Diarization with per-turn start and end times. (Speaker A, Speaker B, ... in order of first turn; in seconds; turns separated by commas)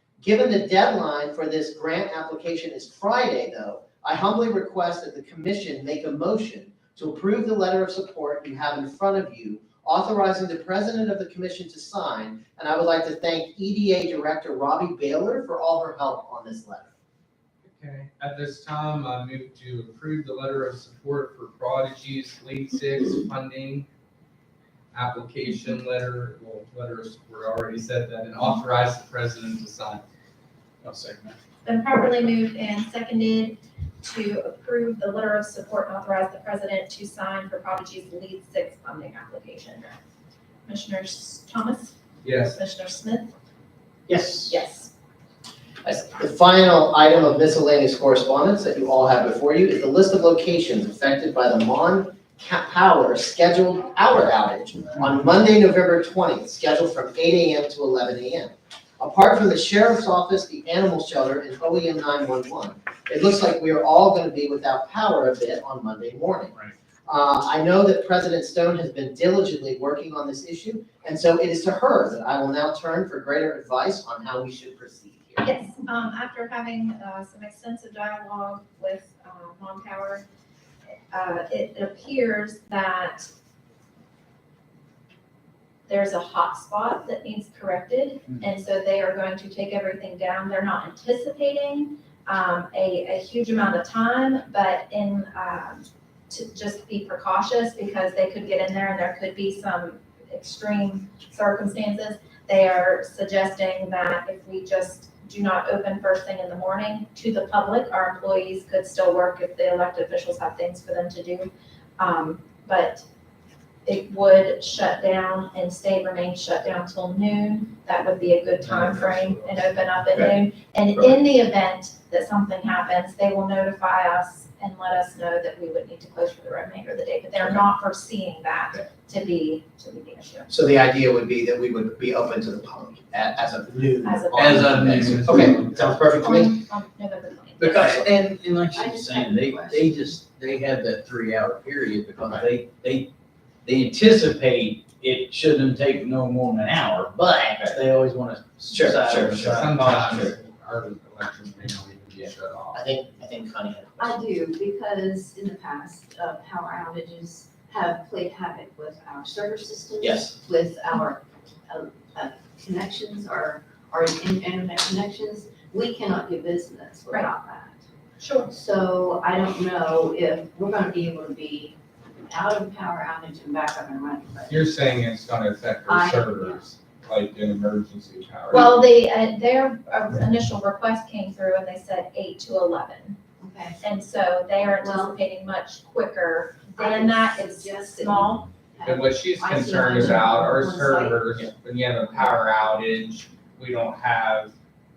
Speaker A: 0.2-16.9, Speaker B: 17.6-23.9, Speaker B: 24.9-30.0, Speaker B: 30.8-31.2, Speaker C: 31.6-40.0, Speaker C: 40.6-42.0, Speaker B: 42.2-42.6, Speaker C: 42.5-43.3, Speaker A: 44.1-44.5, Speaker C: 44.5-44.9, Speaker A: 45.8-75.5, Speaker C: 75.4-80.2, Speaker C: 81.1-83.3, Speaker C: 85.9-113.0, Speaker C: 113.8-130.5, Speaker B: 118.7-119.7, Speaker A: 130.5-136.6, Speaker C: 134.0-135.2, Speaker D: 134.3-135.6, Speaker B: 135.3-135.6, Speaker C: 136.1-137.9, Speaker D: 137.6-143.1, Speaker A: 137.6-138.1, Speaker E: 138.7-140.0, Speaker A: 142.2-142.5, Speaker D: 143.6-150.3, Speaker A: 148.7-150.3, Speaker B: 149.3-152.9, Speaker A: 152.2-154.2, Speaker E: 154.0-167.8, Speaker D: 160.0-160.3, Speaker C: 168.2-168.5, Speaker E: 168.5-174.6, Speaker B: 174.5-178.8, Speaker E: 175.8-176.6, Speaker C: 178.5-183.2, Speaker E: 183.4-183.8, Speaker C: 183.8-188.5, Speaker E: 184.8-185.2, Speaker E: 186.8-191.2, Speaker B: 188.8-194.5